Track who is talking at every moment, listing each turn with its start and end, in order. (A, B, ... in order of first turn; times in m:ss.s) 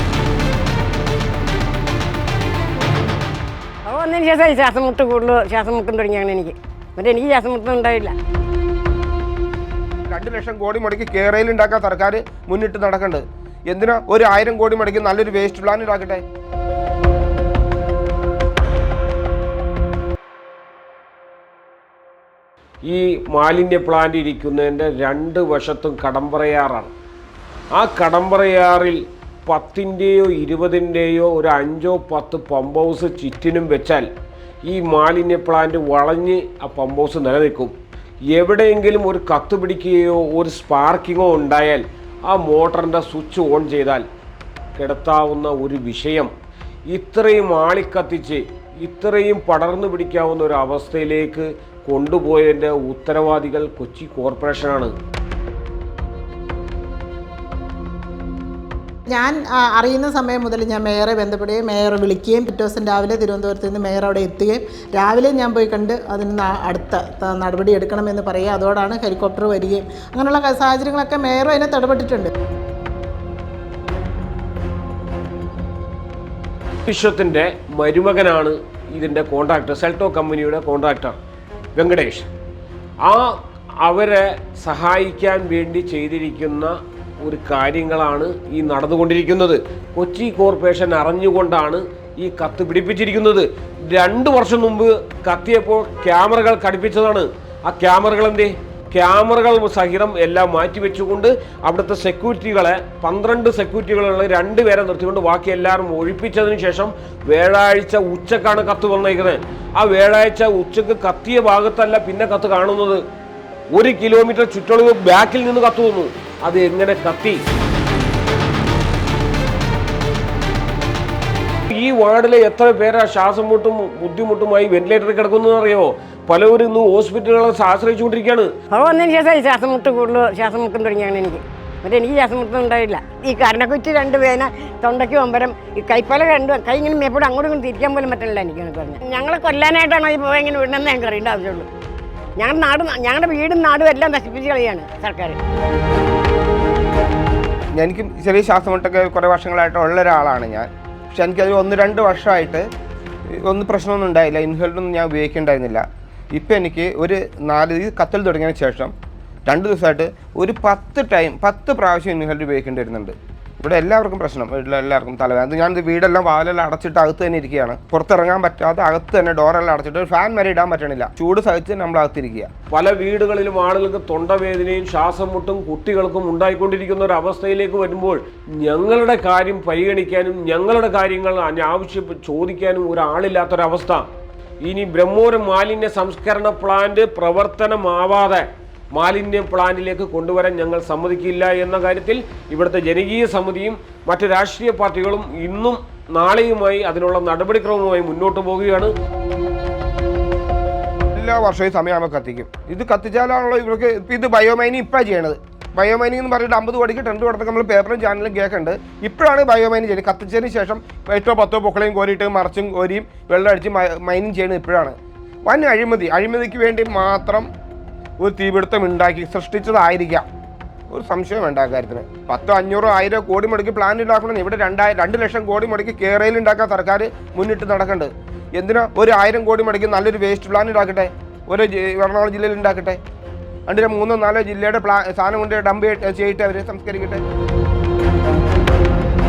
0:03.8-0:08.2 A
0:10.1-0:16.2 B
0:22.8-0:26.9 C
0:27.7-0:34.1 C
0:34.6-0:37.7 C
0:38.3-0:44.0 C
0:44.8-0:46.3 C
0:46.9-0:54.9 C
0:59.1-1:12.3 D
1:16.8-1:21.2 C
1:21.8-1:22.3 C
1:23.0-1:53.0 C
1:53.7-1:57.4 C
2:01.7-2:08.5 C
2:08.7-2:21.7 A
2:22.4-2:25.4 A
2:27.8-2:32.6 B
2:33.4-2:38.9 B
2:39.5-2:52.5 B
2:52.7-3:04.0 C
3:04.6-3:18.9 C
3:21.2-3:37.5 B
3:38.2-3:40.3 B
3:40.9-3:53.0 B
3:53.7-3:57.2 B